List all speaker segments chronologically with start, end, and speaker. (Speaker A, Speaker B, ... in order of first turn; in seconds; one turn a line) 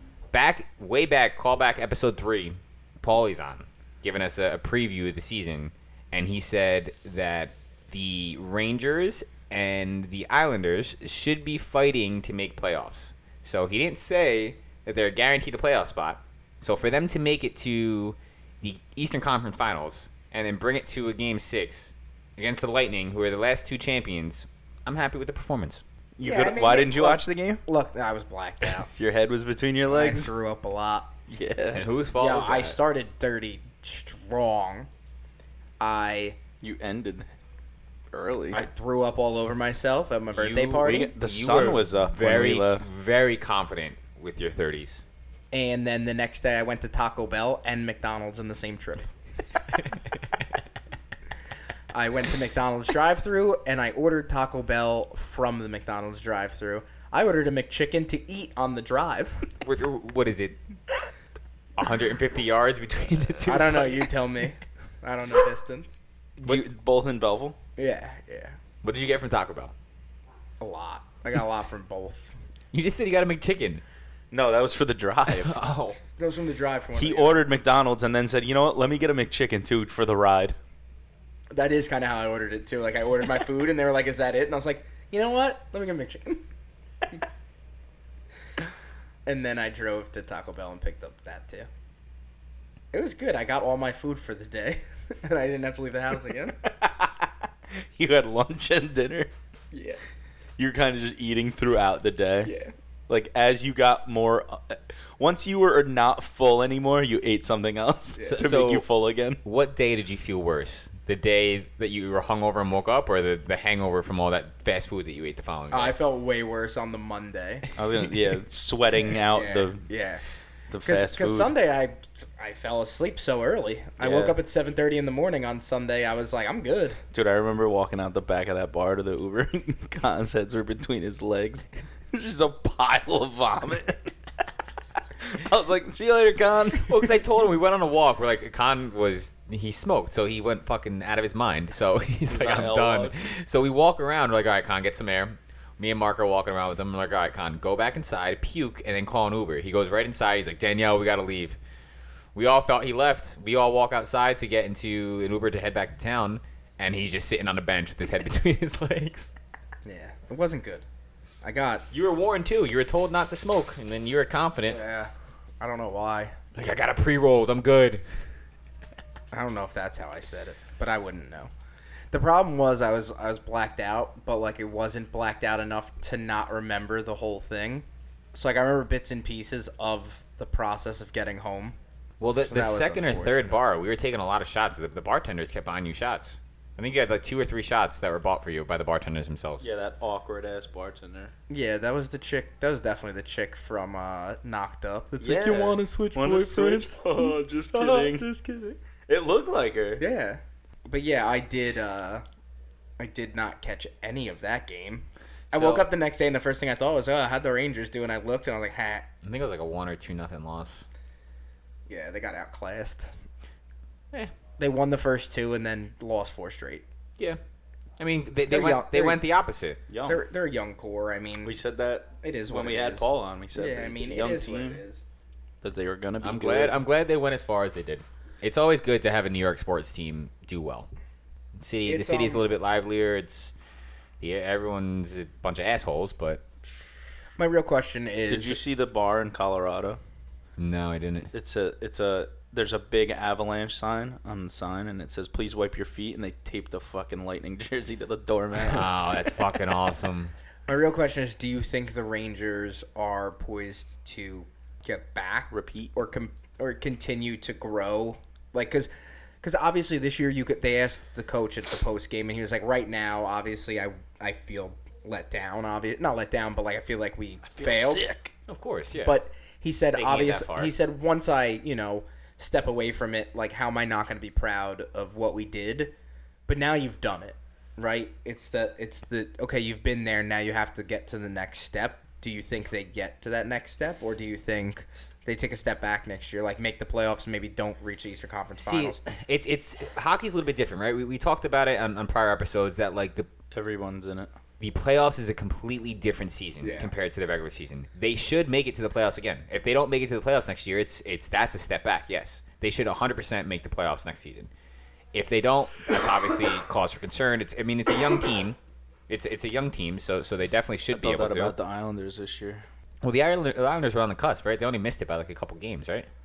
Speaker A: 0.3-25.8
Speaker B: 26.2-27.6
Speaker C: 26.2-28.9
Speaker B: 28.6-30.3
Speaker C: 29.9-31.1
Speaker B: 31.3-31.9
Speaker A: 31.7-32.8
Speaker C: 32.2-34.9
Speaker C: 35.8-36.4
Speaker B: 36.6-37.3
Speaker B: 38.1-38.6
Speaker C: 38.5-41.1
Speaker A: 40.3-45.0
Speaker B: 40.8-42.9
Speaker C: 45.5-49.1
Speaker C: 51.9-59.5
Speaker A: 59.6-60.6
Speaker A: 61.8-64.2
Speaker C: 63.5-66.0
Speaker B: 66.4-67.6
Speaker C: 67.8-68.5
Speaker A: 68.8-69.7
Speaker C: 70.6-72.3
Speaker A: 72.7-73.8
Speaker B: 74.3-75.6
Speaker A: 75.3-76.0
Speaker C: 76.2-77.4
Speaker B: 77.0-80.6
Speaker C: 81.5-86.5
Speaker C: 89.2-91.7
Speaker C: 92.9-96.6
Speaker B: 97.7-99.3
Speaker C: 99.7-100.0
Speaker B: 100.6-102.5
Speaker C: 102.4-102.7
Speaker B: 103.1-109.4
Speaker C: 108.2-108.4
Speaker A: 108.2-108.8
Speaker A: 109.4-115.9
Speaker C: 115.7-117.7
Speaker B: 117.8-119.9
Speaker C: 119.3-120.2
Speaker B: 120.7-121.5
Speaker C: 120.8-127.0
Speaker B: 124.0-124.4
Speaker B: 127.1-134.1
Speaker B: 135.2-137.2
Speaker A: 136.8-151.6
Speaker B: 142.3-143.2
Speaker A: 152.3-159.3
Speaker C: 159.8-160.8
Speaker C: 161.4-161.8
Speaker A: 161.9-164.8
Speaker C: 164.7-166.4
Speaker A: 166.5-168.0
Speaker C: 169.3-171.5
Speaker C: 172.1-181.8
Speaker A: 182.2-189.6
Speaker C: 182.4-183.6
Speaker B: 189.6-191.3
Speaker C: 191.5-198.4
Speaker B: 195.2-200.0
Speaker C: 200.0-202.2
Speaker C: 203.0-209.1
Speaker A: 205.5-205.9
Speaker A: 209.2-210.9
Speaker C: 211.9-213.1
Speaker C: 214.6-216.9
Speaker A: 218.0-219.8
Speaker C: 218.5-219.2
Speaker B: 219.9-220.2
Speaker C: 220.0-221.5
Speaker B: 221.4-224.8
Speaker C: 222.2-225.0
Speaker B: 225.6-226.8
Speaker A: 226.2-230.9
Speaker A: 231.6-233.5
Speaker C: 231.9-232.4
Speaker A: 234.2-236.4
Speaker C: 237.4-238.6
Speaker B: 238.3-240.0
Speaker A: 240.6-241.3
Speaker B: 241.3-249.3
Speaker A: 248.6-250.3
Speaker C: 250.7-258.9
Speaker B: 255.5-255.9
Speaker C: 259.4-268.1
Speaker B: 267.5-268.3
Speaker A: 268.5-269.1
Speaker C: 269.0-275.9
Speaker A: 269.9-270.7
Speaker C: 276.5-289.0
Speaker A: 288.6-293.3
Speaker B: 293.5-294.3
Speaker A: 294.6-304.5
Speaker C: 296.6-296.9
Speaker A: 305.1-308.6
Speaker A: 309.1-311.6
Speaker B: 310.9-312.6
Speaker A: 313.0-316.1